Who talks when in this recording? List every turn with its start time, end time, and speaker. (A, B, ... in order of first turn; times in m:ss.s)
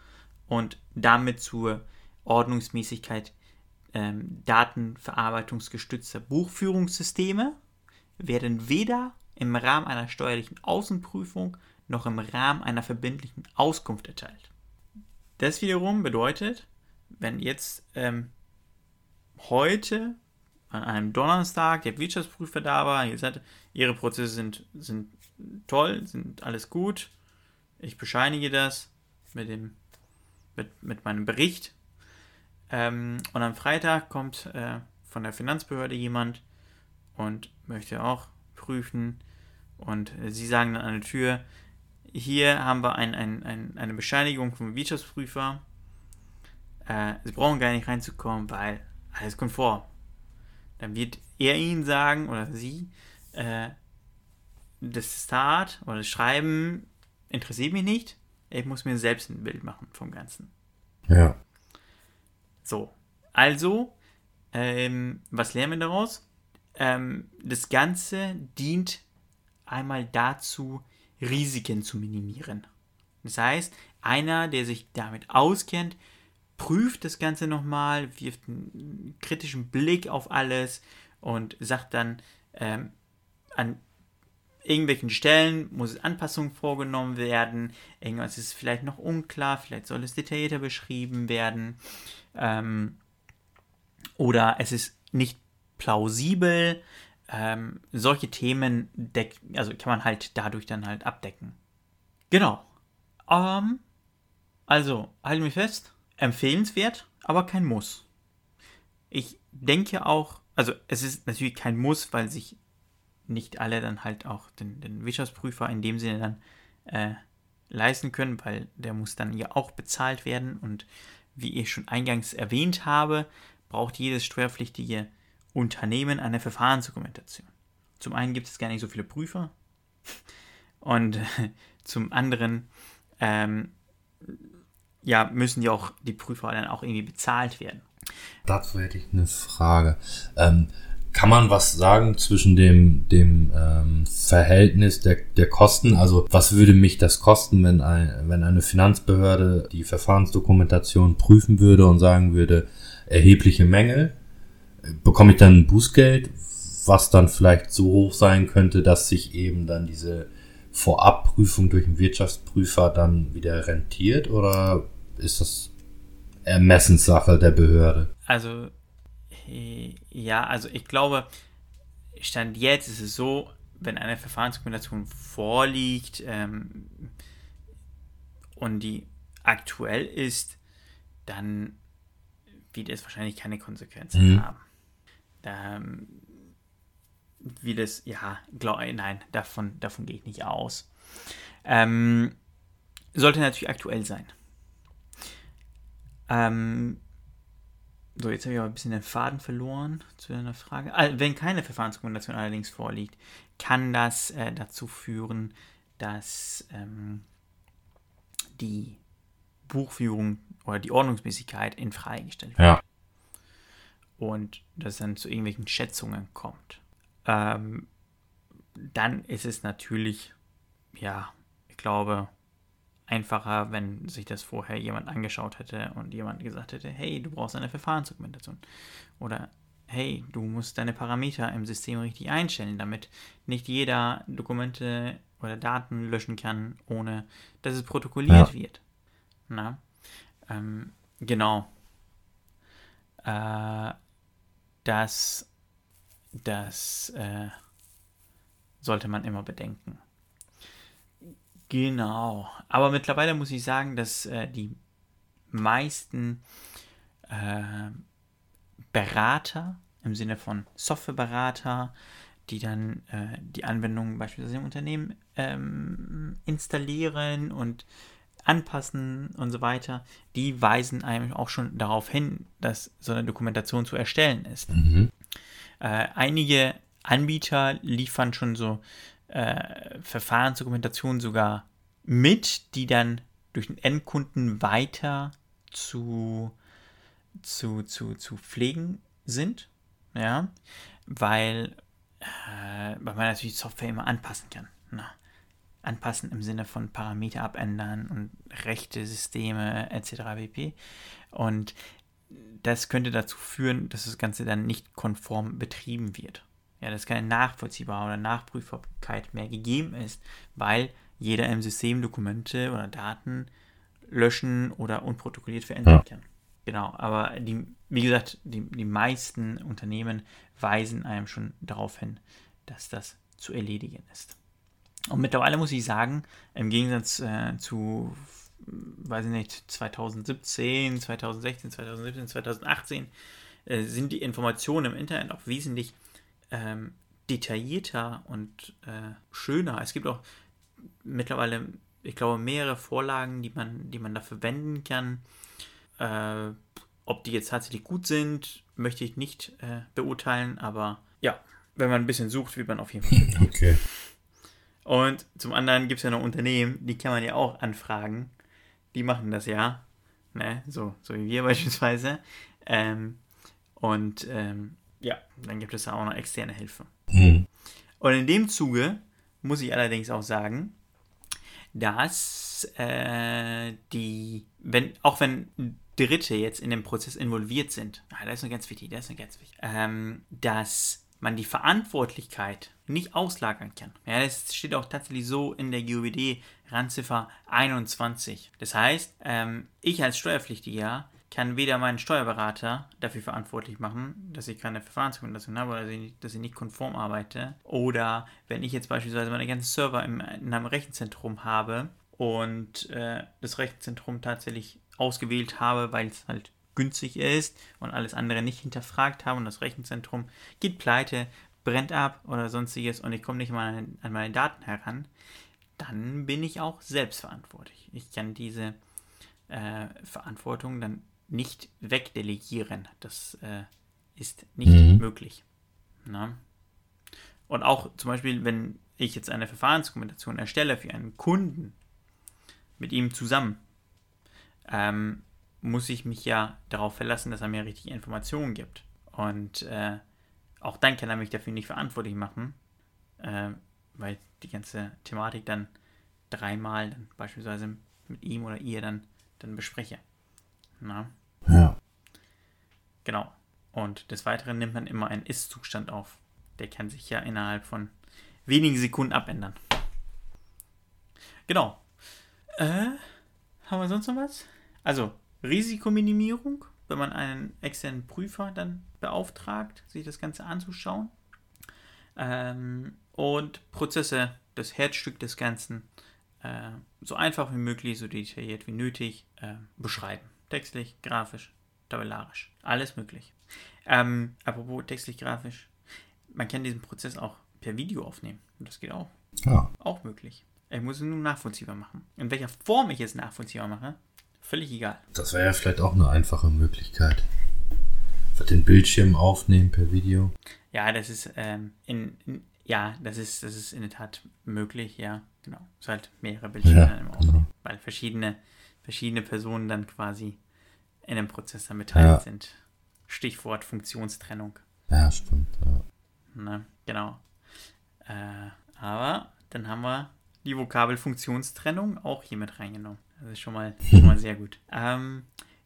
0:00.5-0:03.3 A
0:03.9-0:07.6 A
0:08.2-0:14.5 A
0:15.4-0:16.7 A
0:17.2-0:18.3 A
0:19.4-0:20.2 A
0:20.7-0:27.1 A
0:27.8-0:29.8 A
0:30.6-0:31.7 A
0:32.7-0:36.4 A
0:37.2-0:39.2 A
0:39.8-0:41.4 A
0:42.1-0:45.6 A
0:46.9-0:49.9 A
0:50.8-0:53.8 A
0:54.8-1:00.5 A
1:01.1-1:01.4 B
1:02.6-1:03.9 A
1:04.5-1:06.2 A
1:06.8-1:09.0 A
1:09.7-1:12.7 A
1:13.2-1:16.0 A
1:16.6-1:22.9 A
1:23.6-1:23.8 A
1:24.7-1:31.8 A
1:32.3-1:33.0 A
1:34.2-1:41.6 A
1:42.3-1:42.7 A
1:43.3-1:43.8 A
1:44.7-1:48.0 A
1:49.1-1:52.6 A
1:53.3-1:57.2 A
1:57.7-2:09.5 A
2:10.8-2:12.7 A
2:13.2-2:13.7 A
2:15.0-2:17.9 A
2:18.5-2:34.1 B
2:34.9-2:45.7 B
2:46.4-2:48.1 B
2:48.3-2:48.7 A
2:49.3-2:51.3 A
2:52.2-2:57.1 A
2:58.6-3:00.6 A
3:01.3-3:01.8 A
3:02.7-3:04.6 A
3:04.2-3:04.4 B
3:05.4-3:06.4 A
3:07.4-3:12.4 A
3:13.2-3:14.3 A
3:16.3-3:17.0 A
3:18.2-3:27.2 A
3:28.6-3:29.0 A
3:29.7-3:32.8 A
3:34.2-3:37.9 A
3:38.8-3:40.3 A
3:41.0-3:42.3 A
3:43.1-3:48.6 A
3:49.2-3:58.8 A
3:59.5-3:59.8 A
4:00.5-4:01.7 A
4:03.2-4:04.0 A
4:04.8-4:05.5 A
4:06.4-4:07.6 A
4:08.8-4:10.0 A
4:11.7-4:14.8 A
4:15.5-4:16.4 A
4:17.3-4:18.0 A
4:18.9-4:21.9 A
4:22.5-4:27.8 A
4:28.5-4:34.7 A
4:34.7-4:35.1 B
4:35.8-4:46.6 A
4:47.4-4:50.5 A
4:51.1-4:55.1 A
4:55.8-5:00.8 A
5:01.3-5:01.8 A
5:02.3-5:13.5 A
5:14.1-5:24.4 A
5:25.1-5:33.1 A
5:33.7-5:36.0 A
5:36.5-5:40.2 A
5:41.0-5:45.2 A
5:46.0-5:54.1 A
5:53.1-5:53.8 B
5:54.8-5:58.3 A
5:58.9-5:59.8 A
6:00.3-6:03.2 A
6:03.8-6:06.9 A
6:07.1-6:07.5 B
6:08.0-6:10.8 A
6:11.7-6:55.1 A
6:55.8-6:58.8 A
6:59.5-7:05.4 A
7:04.7-7:05.0 B
7:06.0-7:06.4 A
7:07.5-7:11.8 A
7:12.8-7:13.6 A
7:14.7-7:20.0 A
7:20.6-7:22.6 A
7:23.2-7:25.7 A
7:26.3-7:30.0 A
7:30.8-7:31.1 A
7:31.5-7:31.8 B
7:33.0-7:37.9 A
7:38.5-7:39.6 A
7:41.5-7:41.8 A
7:42.6-7:43.1 A
7:43.6-7:51.1 A
7:52.2-7:55.9 A
7:56.4-8:03.3 A
8:03.9-8:05.7 A
8:06.3-8:09.1 A
8:09.8-8:15.0 A
8:15.1-8:17.2 B
8:18.4-8:20.3 B
8:20.7-8:30.4 A
8:26.6-8:27.5 B
8:31.1-8:34.6 A
8:31.9-8:32.2 B
8:34.9-8:35.8 B
8:36.3-8:37.2 A
8:38.1-8:45.3 A
8:43.9-8:44.1 B